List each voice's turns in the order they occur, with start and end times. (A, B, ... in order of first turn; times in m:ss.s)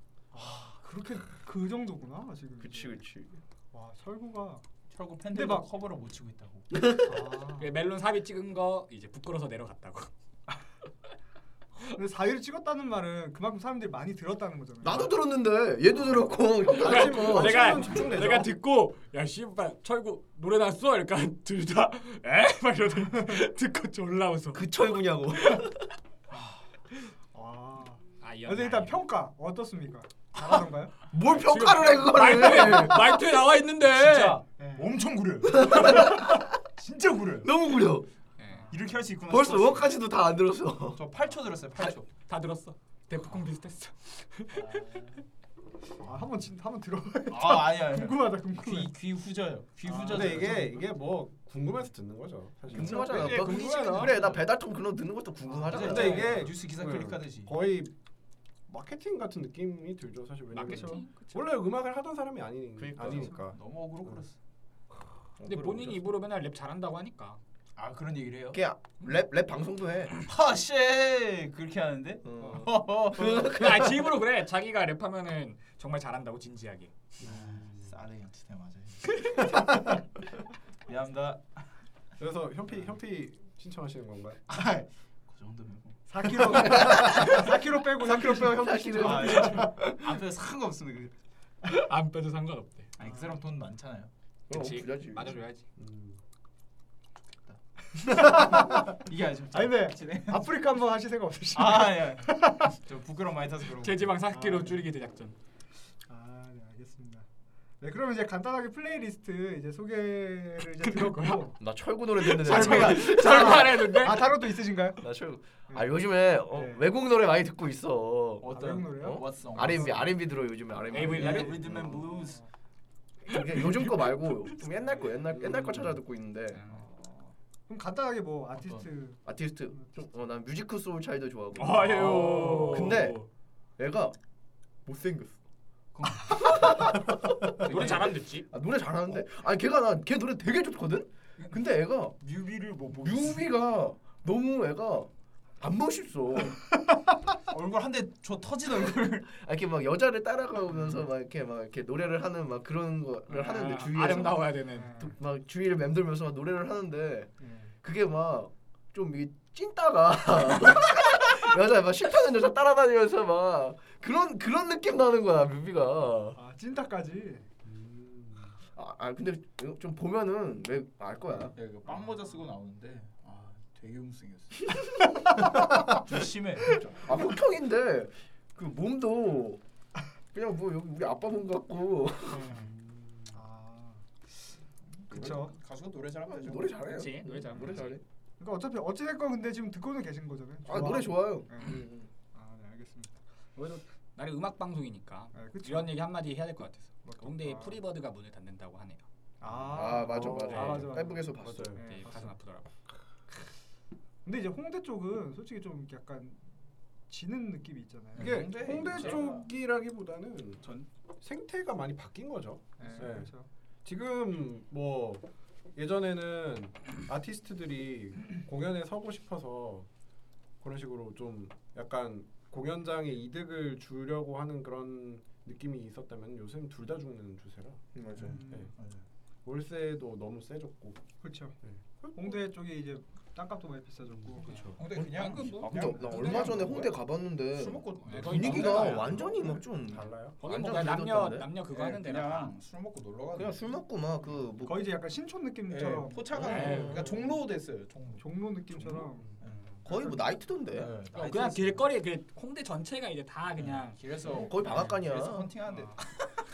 0:00.3-0:03.0 A
0:02.6-0:03.4 B
0:03.7-0:04.6 A
0:04.9-0:06.7 C
0:05.3-0:05.7 A
0:06.7-0:07.0 B
0:07.0-0:07.7 A
0:07.6-0:10.1 D
0:11.8-0:15.2 A
0:14.8-0:17.8 B
0:16.7-0:24.7 D
0:16.8-0:18.5 E
0:24.5-0:25.8 B
0:25.3-0:25.7 D
0:27.3-0:31.0 A
0:28.2-0:29.0 D
0:31.1-0:33.2 B
0:31.2-0:34.4 D
0:33.9-0:37.5 C
0:34.6-0:34.9 A
0:35.5-0:36.5 B
0:37.4-0:38.1 B
0:38.4-0:38.7 D
0:38.5-0:38.8 A
0:38.7-0:39.9 C
0:39.3-0:41.0 B
0:40.9-0:42.0 C
0:41.8-0:44.9 D
0:44.6-0:45.0 C
0:46.0-0:48.9 A
0:47.3-0:50.8 C
0:49.9-0:50.6 A
0:50.1-0:53.6 E
0:52.7-0:56.4 B
0:52.7-0:54.4 C
0:53.4-0:54.1 D
0:53.5-0:54.1 A
0:55.6-0:56.0 A
0:55.7-0:57.5 C
0:55.8-0:57.9 E
0:58.7-1:03.6 E
1:00.5-1:01.4 D
1:00.6-1:01.0 A
1:02.8-1:03.4 B
1:03.1-1:04.4 C
1:05.4-1:06.0 B
1:05.4-1:07.4 D
1:07.8-1:08.6 C
1:08.5-1:10.2 B
1:10.2-1:13.5 C
1:12.2-1:14.1 B
1:13.2-1:16.9 D
1:17.2-1:19.5 C
1:17.2-1:17.9 E
1:20.9-1:21.4 C
1:22.2-1:24.4 E
1:24.5-1:26.7 C
1:26.1-1:29.7 A
1:26.4-1:30.1 B
1:29.0-1:31.1 C
1:31.6-1:32.9 D
1:33.0-1:34.1 C
1:33.0-1:33.4 A
1:34.5-1:35.4 B
1:34.5-1:35.7 D
1:35.8-1:36.2 E
1:38.0-1:39.0 A
1:38.1-1:40.5 C
1:39.5-1:42.8 A
1:41.5-1:44.1 C
1:43.8-1:45.4 D
1:44.3-1:44.8 A
1:46.1-1:47.3 A
1:47.8-1:51.6 A
1:50.8-1:51.4 D
1:51.6-1:53.8 B
1:52.2-1:54.3 D
1:52.5-1:55.1 A
1:55.0-2:02.0 B
1:56.5-1:56.9 A
1:58.4-2:00.1 C
1:58.5-1:59.9 A
2:00.9-2:02.4 C
2:00.9-2:01.6 D
2:01.6-2:02.5 A
2:03.3-2:06.6 B
2:03.3-2:04.6 D
2:06.6-2:06.8 C
2:06.7-2:09.9 A
2:08.6-2:08.9 C
2:09.2-2:13.2 B
2:11.6-2:13.3 D
2:13.8-2:14.2 B
2:14.9-2:15.4 B
2:15.9-2:17.0 C
2:16.3-2:16.9 D
2:16.4-2:22.2 B
2:17.6-2:18.5 D
2:17.6-2:18.0 C
2:22.2-2:23.5 C
2:22.9-2:26.6 B
2:27.5-2:29.3 C
2:29.3-2:46.4 B
2:33.3-2:34.9 D
2:34.7-2:35.1 A
2:37.4-2:37.7 A
2:46.4-2:47.5 A
2:47.6-2:48.6 E
2:48.8-2:51.6 B
2:51.6-2:54.8 C
2:55.4-2:56.0 B
2:55.8-2:57.2 C
2:57.0-2:59.6 B
3:00.3-3:02.6 B
3:02.3-3:02.7 A
3:02.7-3:03.3 E
3:03.3-3:04.0 A
3:05.0-3:06.8 C
3:05.1-3:05.5 A
3:06.3-3:08.0 B
3:06.9-3:08.0 D
3:08.4-3:11.8 A
3:10.7-3:12.1 B
3:12.3-3:13.2 A
3:13.6-3:19.0 D
3:15.3-3:16.0 A
3:17.0-3:17.8 A
3:19.4-3:22.3 A
3:19.5-3:21.8 E
3:19.7-3:21.8 B
3:20.5-3:20.9 D
3:21.8-3:22.7 D
3:24.2-3:26.4 A
3:27.1-3:29.3 A
3:28.2-3:29.5 C
3:28.2-3:30.7 E
3:31.2-3:33.3 E
3:32.8-3:33.5 A
3:33.8-3:39.9 E
3:40.6-3:48.7 E
3:48.0-3:48.4 B
3:48.2-3:49.0 C
3:48.4-3:48.7 A
3:49.4-3:51.0 E
3:51.2-3:54.8 A
3:51.6-3:52.4 E
3:54.1-3:54.8 E
3:54.4-3:56.6 D
3:54.8-3:57.0 C
3:55.5-4:01.5 B
3:57.5-3:59.3 C
3:58.0-3:59.2 D
3:58.9-4:00.4 E
4:00.4-4:02.5 D
4:01.7-4:03.6 C
4:03.4-4:04.8 B
4:04.6-4:07.1 A
4:05.7-4:09.8 C
4:06.4-4:07.1 D
4:08.2-4:09.4 A
4:09.8-4:10.9 B
4:10.7-4:11.8 C
4:11.2-4:14.0 D
4:13.6-4:16.1 C
4:14.3-4:15.5 B
4:15.7-4:16.0 A